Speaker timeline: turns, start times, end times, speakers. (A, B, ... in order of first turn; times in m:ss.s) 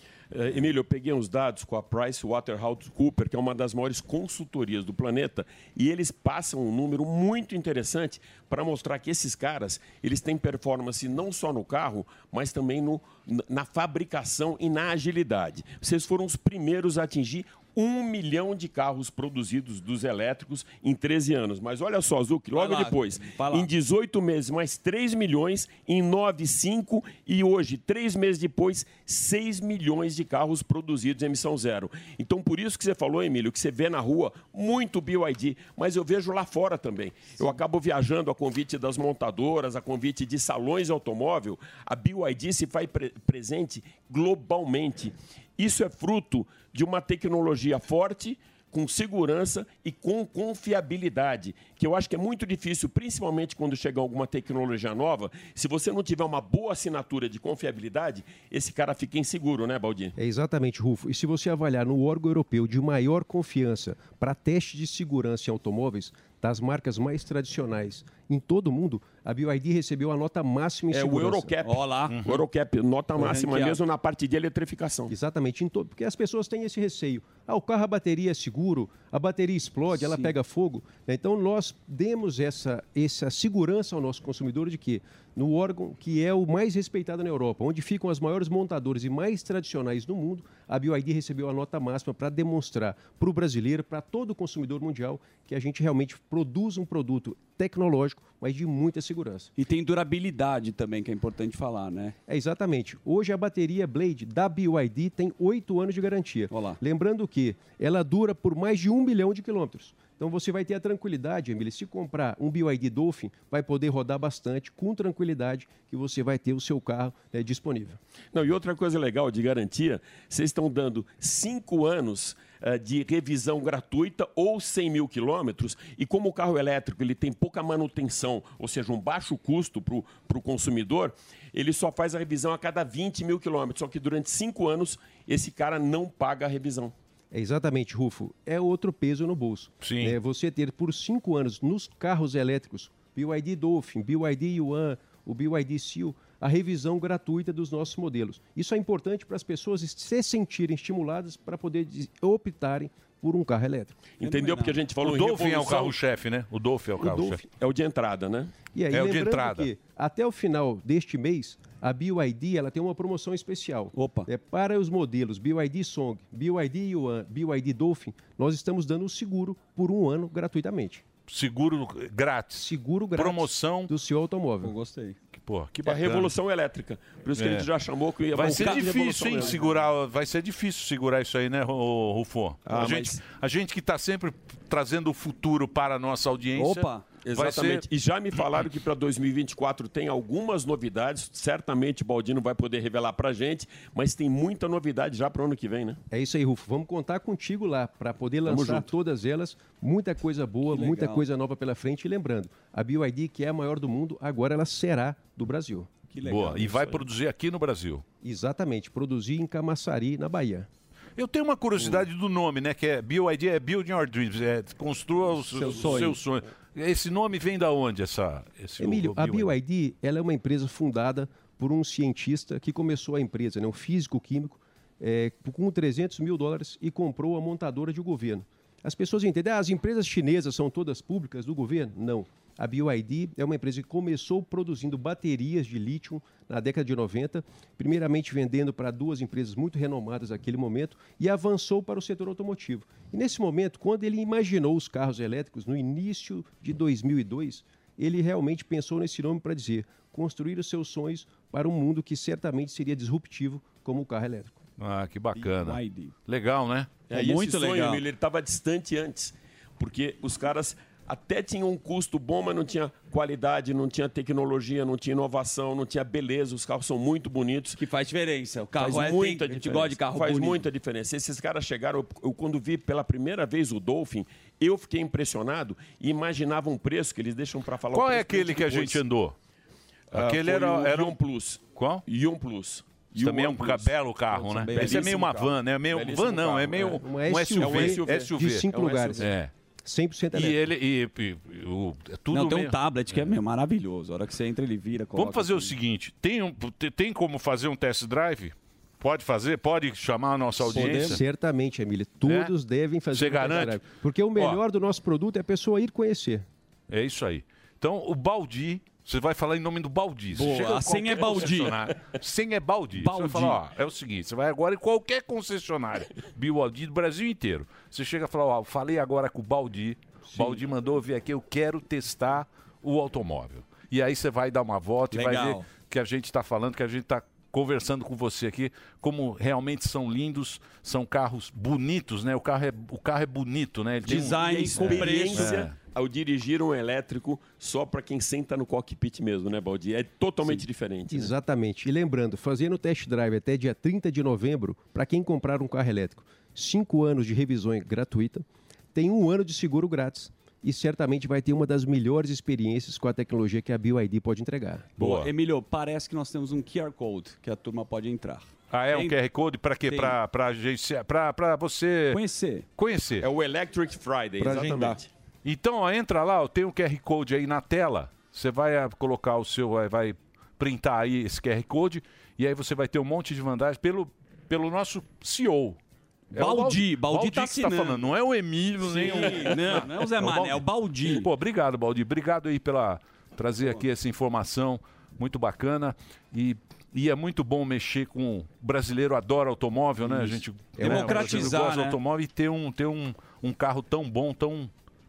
0:00.3-1:00.2 A
0:22.5-0:23.7 B
1:00.2-1:11.6 C
1:10.9-1:15.1 A
1:11.6-1:12.4 B
1:12.1-1:12.4 D
1:13.2-1:13.8 B
1:15.1-1:39.5 C
1:19.9-1:20.4 B
1:39.6-1:42.2 B
1:42.3-1:58.0 C
1:46.5-1:46.8 B
1:58.3-2:16.9 A
2:17.3-2:34.0 C
2:19.8-2:20.2 D
2:34.2-2:36.0 A
2:34.2-2:34.9 B
2:35.0-2:37.4 D
2:37.0-2:38.6 A
2:38.7-2:51.0 C
2:38.9-2:39.7 D
2:43.9-2:44.3 B
2:51.3-2:53.9 D
2:52.5-2:54.8 C
2:54.6-2:55.2 B
2:55.3-2:56.3 D
2:55.8-2:59.6 A
2:57.4-2:57.7 D
2:58.3-3:07.9 D
2:58.4-2:59.8 B
3:02.7-3:03.2 A
3:06.6-3:07.2 B
3:07.1-3:16.0 A
3:16.1-3:25.9 C
3:18.5-3:18.9 A
3:20.7-3:21.3 B
3:26.1-3:27.1 B
3:26.2-3:28.0 D
3:28.2-3:30.7 C
3:31.2-3:39.5 D
3:35.4-3:36.2 B
3:38.8-4:14.6 C
4:14.8-4:17.1 D
4:15.4-4:16.2 B
4:17.1-4:27.8 A
4:17.1-4:18.0 B
4:27.8-4:30.7 B
4:28.8-4:39.0 A
4:37.9-4:39.4 D
4:40.1-4:43.9 A
4:40.1-4:42.0 D
4:43.2-4:49.5 D
4:44.3-4:45.5 B
4:44.7-4:47.0 A
4:46.8-4:49.3 C
4:47.5-4:49.3 A
4:49.8-4:50.7 C
4:50.3-4:53.4 D
4:52.3-4:55.8 B
4:55.1-5:01.2 D
5:00.6-5:01.2 B
5:00.7-5:06.5 C
5:02.2-5:02.5 D
5:03.1-5:04.6 D
5:06.9-5:35.8 D
5:10.3-5:11.8 B
5:12.9-5:13.6 B
5:20.3-5:20.6 B
5:25.1-5:25.8 B
5:34.0-5:35.7 B
5:34.1-5:41.3 A
5:41.1-5:54.9 C
5:55.0-5:55.3 D
5:55.0-5:59.2 B
5:58.7-6:02.2 D
5:59.8-6:00.2 B
6:02.1-6:02.7 B
6:02.8-6:03.3 D
6:03.2-6:05.1 A
6:04.4-6:05.0 B
6:05.4-6:15.8 D
6:16.3-6:18.1 B
6:16.3-6:34.7 D
6:18.8-6:21.3 B
6:30.0-6:32.0 B
6:30.8-6:31.6 C